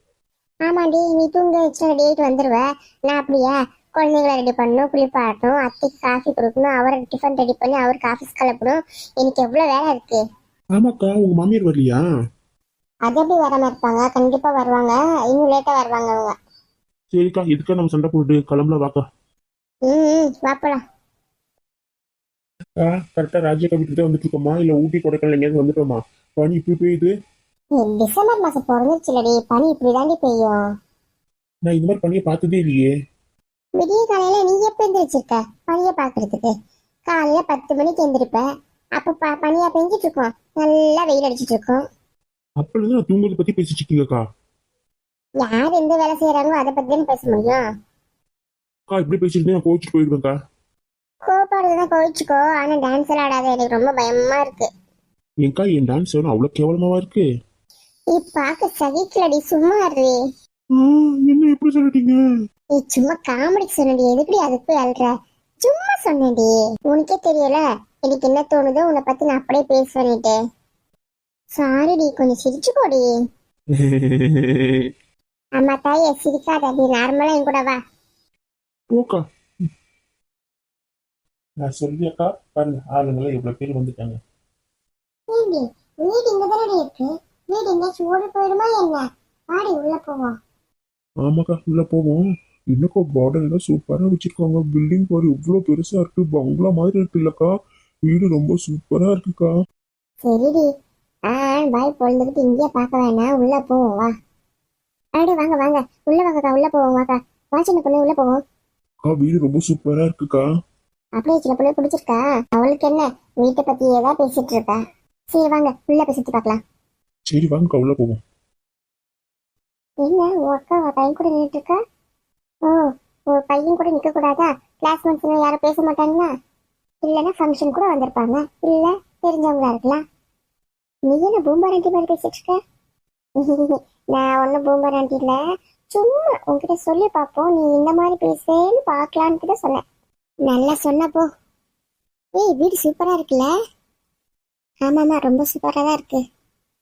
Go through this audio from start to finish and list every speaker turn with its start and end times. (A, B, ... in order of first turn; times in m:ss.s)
0:00.7-0:10.2 A
0:10.8-0:12.0 B
0:13.1-0:16.4 A
0:17.1-0:19.0 B
0:19.9-0:20.8 A
0:22.8-0:27.1 B
0:27.8-0:30.6 A
0:31.7-0:32.9 B
0:33.8-0:36.5 A
0:37.1-0:38.4 A
0:39.0-0:41.8 A
0:42.6-0:44.2 B
0:45.4-0:47.6 A
0:48.9-0:50.3 B
0:51.3-0:54.7 A
0:55.4-0:57.2 B
0:58.1-1:00.2 A
1:00.8-1:02.2 B
1:02.7-1:10.4 A
1:11.6-1:13.0 A
1:13.8-1:14.7 B
1:15.6-1:17.8 A
1:18.9-1:19.2 B
1:21.6-1:24.2 B
1:25.3-1:30.3 A
1:31.2-1:37.5 B
1:38.1-1:39.5 B
1:40.2-1:40.7 A
1:41.3-1:44.1 A
1:45.2-1:48.4 A
1:49.1-1:50.4 B
1:51.2-1:54.8 A
1:55.3-1:56.6 A
1:57.3-1:58.2 B
2:00.0-2:01.8 A
2:02.6-2:06.3 A
2:07.0-2:10.0 A
2:11.1-2:12.6 A
2:13.4-2:15.4 A
2:15.9-2:19.8 A
2:20.5-2:21.3 A
2:22.3-2:23.5 A
2:24.8-2:26.2 A